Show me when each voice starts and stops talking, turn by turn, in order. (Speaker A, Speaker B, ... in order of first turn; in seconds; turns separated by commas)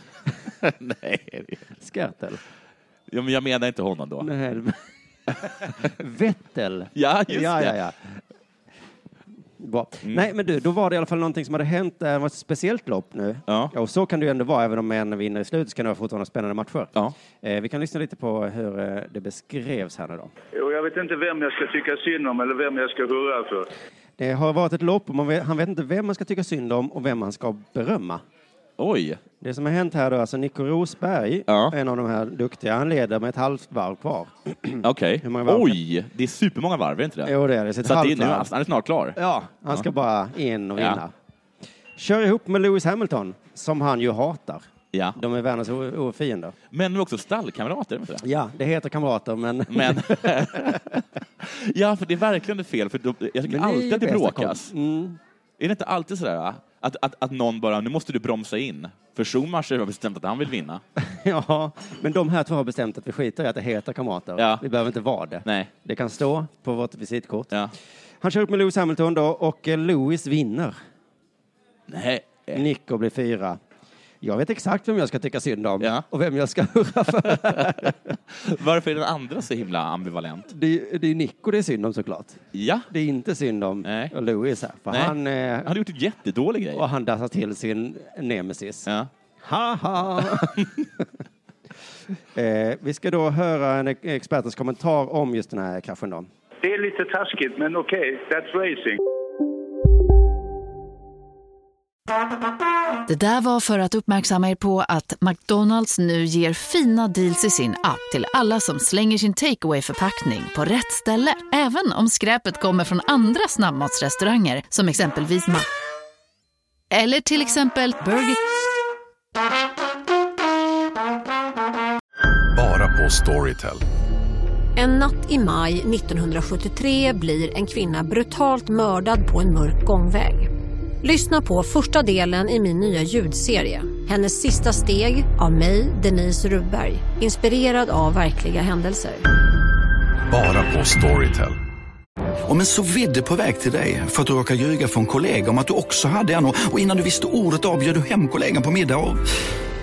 Speaker A: 0.6-1.6, Speaker B: 1.8-2.4, Speaker A: 3.1-4.3, Speaker B: 4.2-4.8, Speaker B: 5.4-8.2, Speaker A: 6.9-7.8, Speaker B: 9.6-20.3, Speaker A: 13.5-13.7, Speaker C: 20.5-23.7, Speaker B: 24.2-28.2, Speaker A: 28.8-29.2, Speaker B: 29.4-35.8, Speaker A: 31.5-31.7, Speaker A: 34.8-39.2, Speaker B: 37.2-38.5, Speaker B: 39.1-41.1, Speaker A: 40.8-41.0, Speaker B: 42.0-46.5, Speaker A: 44.9-45.2, Speaker A: 46.7-48.2, Speaker B: 48.2-50.8, Speaker A: 49.7-54.7, Speaker B: 53.5-55.2, Speaker A: 55.6-60.8, Speaker B: 61.0-67.5, Speaker A: 64.4-64.6, Speaker A: 65.4-65.7, Speaker B: 68.2-70.8, Speaker A: 71.9-72.6, Speaker B: 72.5-73.6, Speaker B: 74.2-78.0, Speaker A: 75.8-76.0, Speaker A: 77.3-80.5, Speaker B: 80.5-85.7, Speaker A: 82.5-82.9, Speaker A: 83.8-84.1, Speaker A: 84.9-86.8, Speaker B: 86.7-88.9, Speaker B: 89.4-90.7, Speaker A: 90.3-90.6, Speaker B: 92.3-96.3, Speaker C: 96.6-99.0, Speaker D: 103.1-115.7, Speaker D: 116.9-118.4, Speaker E: 122.5-123.8, Speaker F: 124.8-130.5, Speaker F: 131.0-139.2, Speaker E: 140.3-141.6, Speaker G: 142.4-149.3